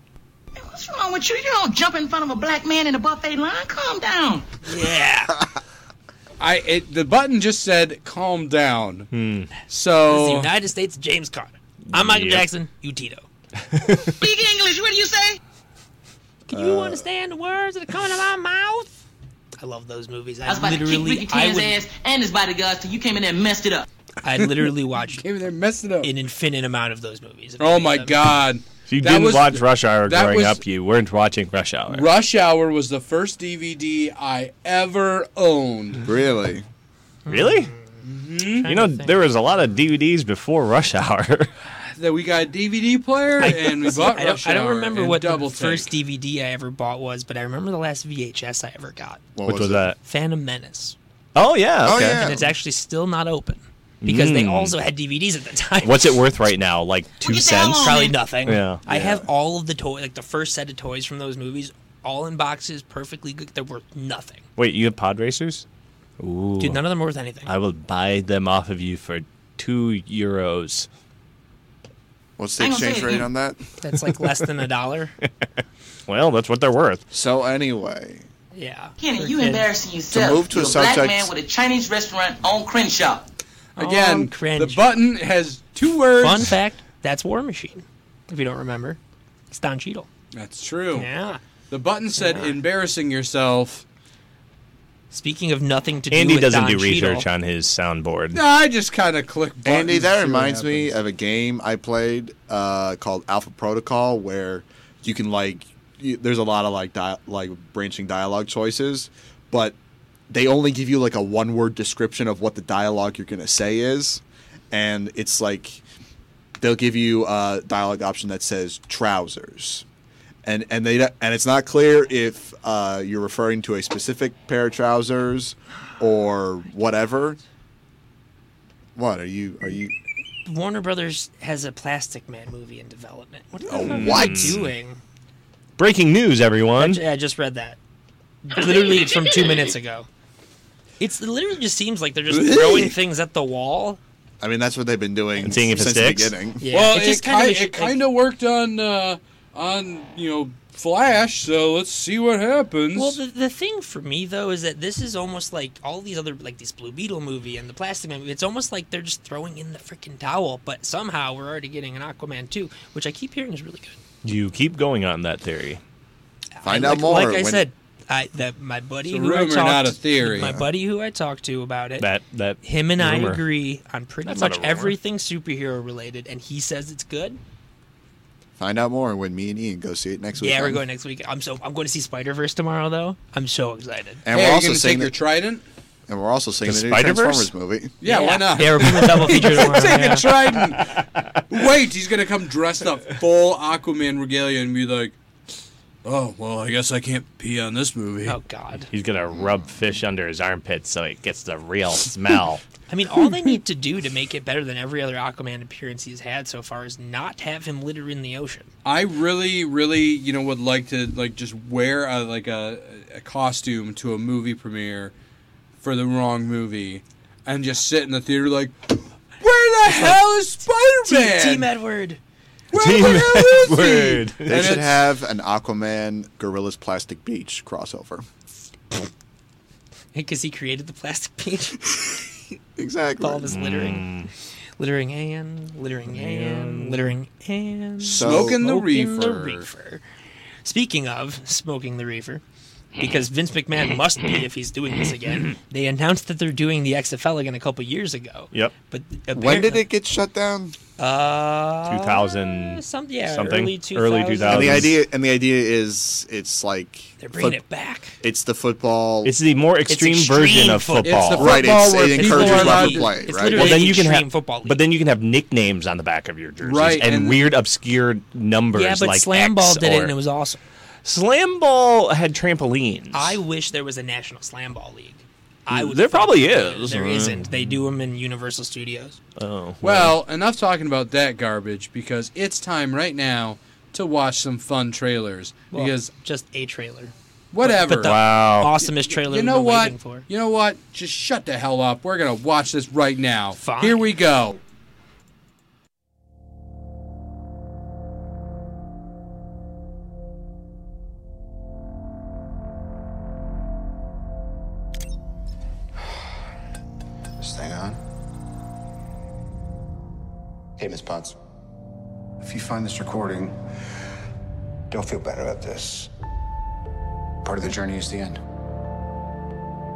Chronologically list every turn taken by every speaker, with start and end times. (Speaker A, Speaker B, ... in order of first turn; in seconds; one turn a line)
Speaker A: 0.6-4.5
Speaker B: 4.6-5.4
Speaker C: 6.4-9.1
Speaker D: 9.1-9.5
Speaker C: 9.7-10.5
Speaker B: 10.1-13.3
Speaker D: 11.9-12.5
Speaker D: 13.6-14.2
Speaker A: 14.2-15.4
Speaker B: 16.5-18.9
Speaker E: 16.5-17.0
Speaker B: 19.6-21.8
Speaker A: 20.5-23.9
Speaker B: 24.2-25.2
Speaker C: 24.4-26.1
Speaker B: 26.0-28.2
Speaker C: 27.6-30.6
Speaker D: 28.9-32.1
Speaker C: 31.9-36.0
Speaker E: 36.0-36.7
Speaker B: 37.2-39.3
Speaker D: 37.3-37.7
Speaker C: 38.0-38.7
Speaker D: 38.6-41.5
Speaker C: 41.9-45.9
Speaker B: 43.4-49.2
Speaker E: 49.4-49.9
Speaker D: 49.5-50.0
Speaker B: 50.0-51.0
Speaker D: 51.4-52.2
Speaker E: 51.8-52.5
Speaker B: 51.9-56.2
Speaker D: 54.0-54.8
Speaker D: 55.8-58.8
Speaker A: 57.2-58.2
Speaker B: 57.7-64.4
Speaker E: 58.9-59.3
Speaker D: 64.6-65.7
Speaker D: 66.2-66.9
Speaker B: 66.6-67.5
Speaker D: 67.5-70.9
Speaker E: 72.4-73.6
Speaker A: 72.6-73.3
Speaker B: 73.8-75.1
Speaker D: 76.1-77.0
Speaker E: 77.1-78.3
Speaker B: 78.5-79.7
Speaker A: 79.0-83.3
Speaker E: 80.1-81.3
Speaker C: 83.8-86.5
Speaker B: 83.8-84.8
Speaker B: 86.2-89.0
Speaker B: 89.5-90.1
Speaker C: 90.3-91.1
Speaker B: 90.9-91.4
Speaker C: 91.7-93.8
Speaker B: 92.2-92.5
Speaker B: 95.1-97.3
Speaker D: 96.1-98.4
Speaker C: 98.3-100.9
Speaker E: 99.6-109.8
Speaker E: 110.3-115.8
Speaker E: 116.6-119.8
Speaker E: 120.4-127.4
Speaker E: 129.0-129.9
Speaker B: 130.5-135.0
Speaker E: 133.7-134.6
Speaker D: 133.9-134.7
Speaker D: 135.8-137.0
Speaker B: 136.8-137.8
Speaker B: 138.4-140.1
Speaker A: 138.8-139.7
Speaker B: 141.0-144.0
Speaker C: 142.3-143.0
Speaker E: 144.4-146.7
Speaker D: 145.4-146.3
Speaker B: 146.6-148.0
Speaker C: 146.7-153.2
Speaker B: 152.9-164.0
Speaker D: 164.2-165.8
Speaker B: 166.6-172.1
Speaker E: 166.6-167.7
Speaker C: 169.1-170.6
Speaker D: 172.0-173.4
Speaker B: 172.6-177.4
Speaker D: 174.3-175.0
Speaker E: 178.6-180.8
Speaker B: 180.4-184.2
Speaker E: 184.2-185.2
Speaker C: 184.3-185.7
Speaker E: 186.1-188.0
Speaker D: 186.6-187.5
Speaker C: 188.0-195.2
Speaker B: 188.0-190.3
Speaker C: 196.0-198.4
Speaker B: 198.2-198.9
Speaker D: 198.9-202.6
Speaker B: 202.9-208.7
Speaker C: 208.8-215.1
Speaker C: 215.8-221.7
Speaker B: 219.9-220.2
Speaker B: 221.0-222.2
Speaker C: 222.7-224.9
Speaker D: 222.7-224.8
Speaker E: 224.5-228.3
Speaker B: 230.1-231.9
Speaker E: 232.8-233.5
Speaker B: 233.2-234.1
Speaker D: 233.5-234.3
Speaker B: 234.8-240.0
Speaker D: 236.1-237.1
Speaker C: 238.0-239.7
Speaker E: 238.1-238.6
Speaker B: 240.7-242.4
Speaker B: 243.0-249.9
Speaker E: 249.3-250.8
Speaker B: 251.0-254.9
Speaker D: 251.9-254.9
Speaker E: 254.5-257.6
Speaker B: 257.2-258.2
Speaker E: 258.2-259.3
Speaker D: 259.2-261.6
Speaker B: 259.9-264.8
Speaker C: 261.0-263.2
Speaker E: 261.4-263.8
Speaker D: 263.5-270.1
Speaker C: 266.6-267.6
Speaker B: 268.7-270.6
Speaker D: 271.1-273.4
Speaker B: 273.1-279.2
Speaker D: 275.7-277.7
Speaker D: 279.4-280.1
Speaker C: 279.8-286.1
Speaker B: 285.7-290.3
Speaker C: 287.5-288.2
Speaker D: 288.0-288.7
Speaker C: 289.1-294.6
Speaker B: 293.6-294.1
Speaker F: 307.4-308.0
Speaker F: 310.8-311.4
Speaker F: 312.4-313.6
Speaker F: 314.9-316.1
Speaker F: 317.4-318.4